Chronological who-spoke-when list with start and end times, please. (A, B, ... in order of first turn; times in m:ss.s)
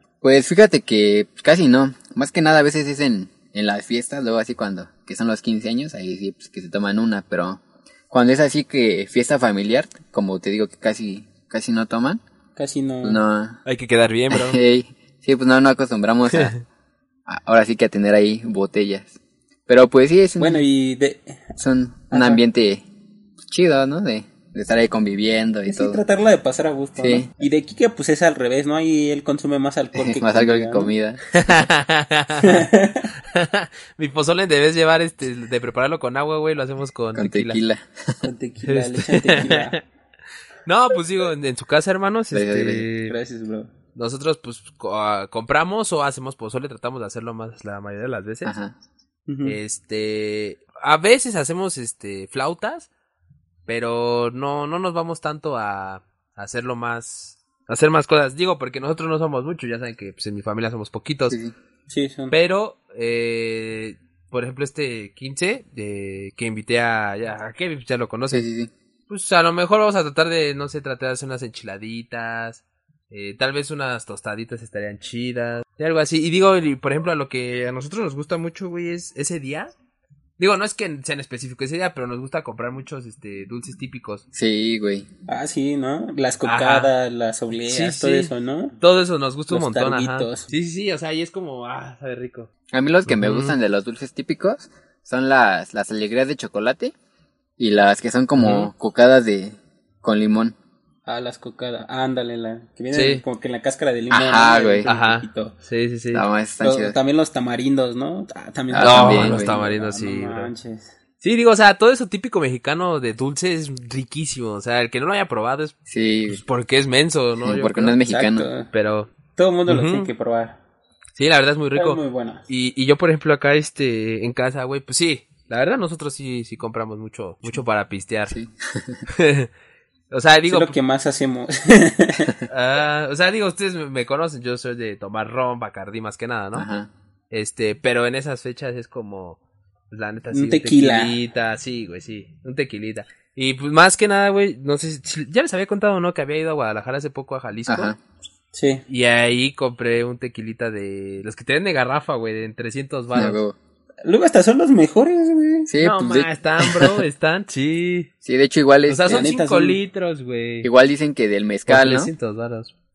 0:00.2-0:12.2 A
0:12.6-0:13.2 B
0:13.0-0:13.6 A
0:13.6-0:14.6 C
0:14.3-0:16.5 A
0:16.3-0:16.6 C
0:17.2-0:19.2 A
0:19.7-0:20.6 A
0:20.4-0:21.5 B
0:21.6-0:22.8 A
0:22.1-0:22.4 B
0:23.4-0:26.0 A
0:25.7-0:30.9 B
0:27.0-0:27.3 A
0:29.9-0:31.2 A
0:31.3-0:32.7 C
0:32.4-0:33.1 B
0:33.3-0:37.6 C
0:37.1-0:38.2 A
0:38.2-0:39.8 B
0:38.7-0:39.8 C
0:40.6-0:43.1 C
0:42.3-0:42.9 A
0:43.1-0:43.7 B
0:43.9-0:48.5 C
0:48.4-0:48.8 A
0:49.3-0:49.6 B
0:49.4-0:52.9 C
0:53.6-1:01.4 C
1:01.3-1:01.5 A
1:01.9-1:02.4 B
1:02.3-1:08.5 C
1:08.3-1:08.7 A
1:09.1-1:19.7 C
1:20.4-1:24.2 C
1:24.3-1:25.1 A
1:25.3-1:28.8 B
1:26.4-1:26.9 C
1:27.7-1:32.5 C
1:29.5-1:30.5 B
1:32.7-1:36.9 A
1:33.1-1:33.6 C
1:37.6-1:40.6 A
1:38.4-1:38.7 C
1:41.0-1:45.6 B
1:42.9-1:43.2 C
1:44.1-1:44.9 A
1:44.8-1:46.2 C
1:46.1-1:47.0 A
1:46.6-1:50.9 B
1:48.7-1:49.6 A
1:48.8-1:50.5 C
1:51.2-1:55.7 C
1:55.9-1:56.4 A
1:56.3-1:58.0 C
1:57.4-1:58.5 A
1:58.0-1:58.7 B
1:58.7-1:59.1 C
1:59.3-2:00.6 B
1:59.7-2:00.1 C
2:01.2-2:08.4 C
2:01.7-2:02.4 B
2:08.3-2:09.0 A
2:09.1-2:09.5 C
2:10.1-2:10.8 C
2:10.5-2:12.3 B
2:12.5-2:16.7 C
2:16.5-2:16.9 A
2:17.3-2:19.4 C
2:19.9-2:27.9 C
2:20.3-2:21.2 B
2:27.7-2:28.0 A
2:28.5-2:28.8 B
2:28.9-2:33.4 C
2:33.1-2:33.6 A
2:34.0-2:35.7 B
2:35.7-2:37.0 A
2:35.8-2:38.1 C
2:38.2-2:39.3 A
2:38.9-2:40.7 C
2:39.1-2:39.8 B
2:40.6-2:42.1 A
2:41.7-2:42.7 C